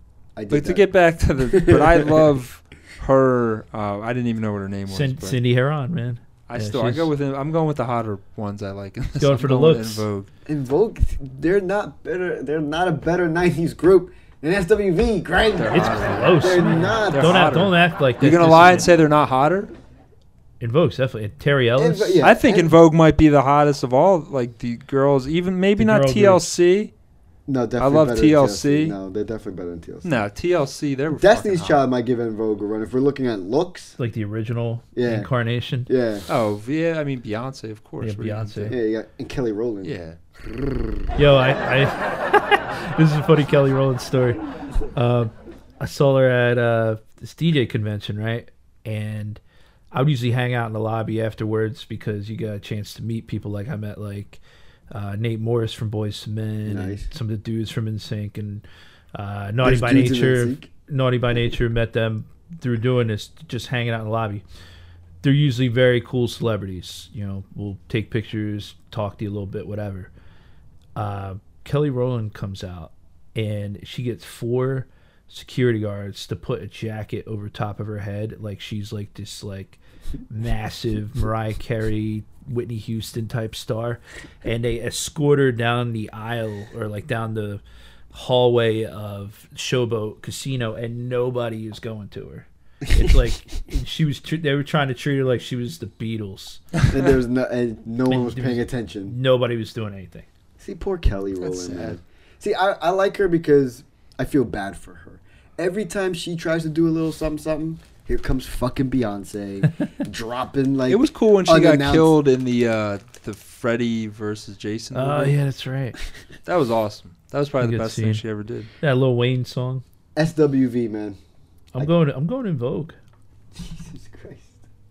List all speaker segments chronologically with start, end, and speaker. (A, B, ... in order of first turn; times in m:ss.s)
0:00.4-0:00.8 A
0:00.5-0:05.4 B
0:01.4-0:02.3 A
0:04.9-0:07.1 C
0:06.5-0:10.3 B
0:09.2-0:10.0 C
0:10.5-0:17.6 A
0:15.6-0:19.7 B
0:15.7-0:18.9 C
0:20.6-0:22.2 C
0:21.8-0:22.7 A
0:22.2-0:26.9 B
0:25.8-0:26.5 C
0:27.5-0:30.2 A
0:27.8-0:28.9 B
0:30.0-0:31.8 B
0:31.1-0:34.0 A
0:34.0-0:35.9 C
0:34.9-0:35.3 A
0:35.8-0:36.2 A
0:36.3-0:38.7 B
0:38.0-0:38.8 C
0:38.7-0:39.9 A
0:39.8-0:40.2 B
0:40.5-0:41.0 A
0:41.2-0:44.4 C
0:44.9-0:49.4 C
0:49.9-0:54.4 C
0:54.9-1:04.4 C
0:56.6-0:57.1 A
0:59.6-1:00.7 A
1:05.2-1:10.1 C
1:11.0-1:19.8 C
1:20.3-1:27.6 C
1:28.1-1:36.6 C
1:32.9-1:33.3 A
1:36.9-1:39.2 A
1:38.1-1:40.2 C
1:40.6-1:52.1 A
1:41.4-1:42.0 B
1:50.9-1:55.4 B
1:54.9-1:56.0 C
1:56.4-1:58.7 B
1:57.6-1:58.2 C
1:58.8-1:59.8 C
2:00.2-2:01.2 A
2:01.7-2:03.0 C
2:03.6-2:04.6 A